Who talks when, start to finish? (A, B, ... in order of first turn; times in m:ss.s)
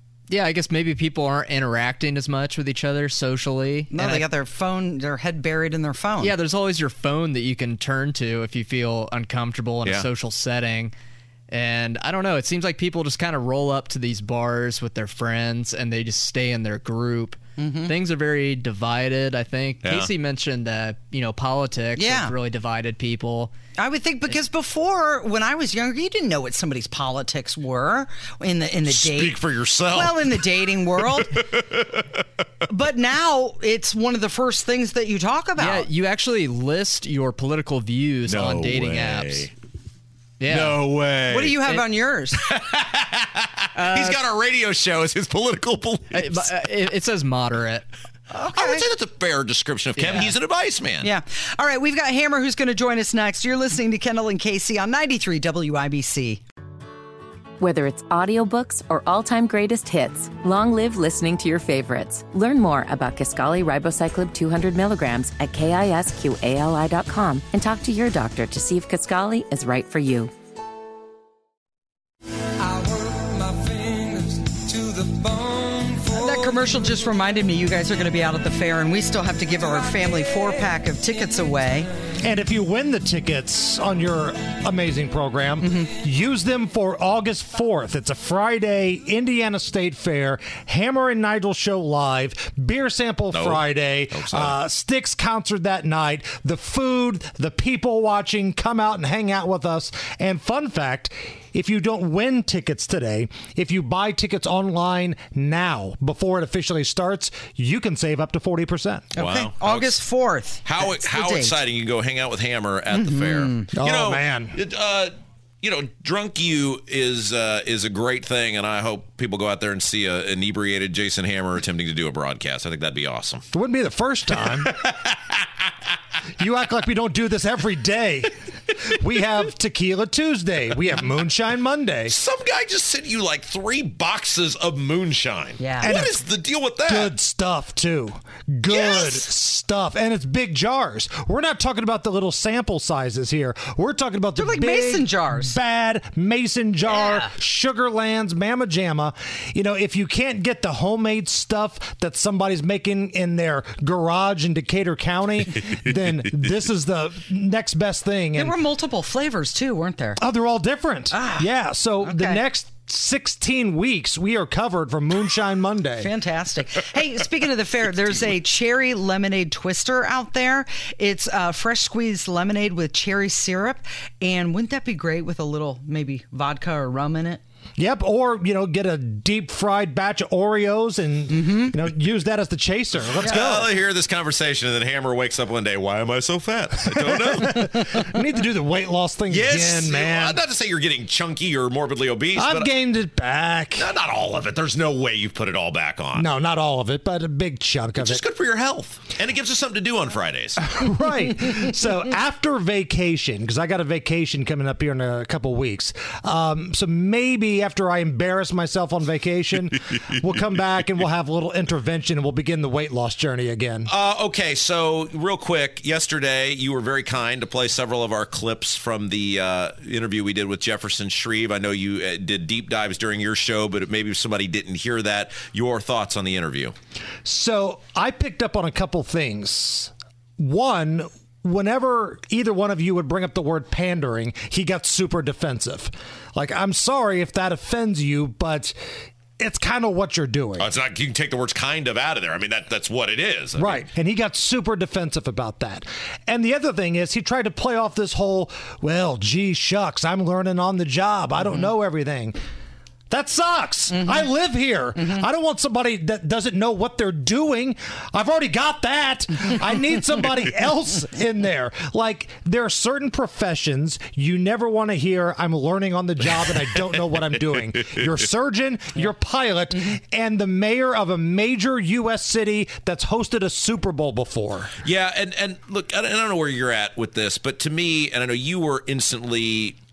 0:00.3-0:04.2 A
0:03.9-0:06.3 B
0:06.2-0:10.9 A
0:11.5-0:23.5 A
0:17.6-0:17.9 B
0:19.8-0:20.1 C
0:22.0-0:22.3 B
0:23.8-0:29.4 B
0:28.9-0:32.2 C
0:29.9-0:31.4 B
0:32.6-0:35.9 B
0:35.6-0:39.5 A
0:38.3-0:39.5 C
0:40.4-0:40.8 A
0:40.5-0:41.6 C
0:41.3-0:42.4 B
0:42.4-0:46.5 C
0:43.7-0:44.2 A
0:46.1-0:47.8 A
0:48.3-0:48.8 B
0:48.5-0:51.1 C
0:50.0-0:50.3 A
0:51.0-0:56.4 B
0:57.6-1:10.3 D
1:15.9-1:21.9 B
1:22.2-1:49.1 E
1:25.6-1:25.9 B
1:33.3-1:34.6 C
1:49.1-1:51.6 B
1:49.2-1:50.0 C
1:50.6-2:03.4 C
1:52.9-1:53.7 B
1:53.7-1:54.6 E
2:03.5-2:04.8 E
2:04.4-2:05.7 C
2:06.4-2:12.2 E
2:12.1-2:17.1 C
2:15.6-2:15.9 B
2:15.8-2:16.2 E
2:16.8-2:38.6 E
2:24.4-2:25.6 B
2:26.9-2:27.3 B
2:38.3-2:40.2 B
2:40.2-2:46.1 E
2:41.1-2:41.5 B
2:42.0-2:42.4 B
2:46.0-2:57.4 B
2:57.8-3:03.7 E
3:01.3-3:01.7 B
3:03.1-3:07.9 C
3:06.9-3:10.4 E
3:09.3-3:12.7 C
3:12.4-3:13.9 E
3:13.8-3:16.3 C
3:16.1-3:18.2 E
3:18.0-3:20.8 C
3:20.6-3:33.9 E
3:33.9-3:46.7 C
3:47.2-3:58.7 E
3:59.4-4:00.7 E
4:00.6-4:03.8 C
4:03.6-4:12.4 E
4:13.1-4:34.8 E
4:27.1-4:27.6 C
4:34.8-4:39.8 C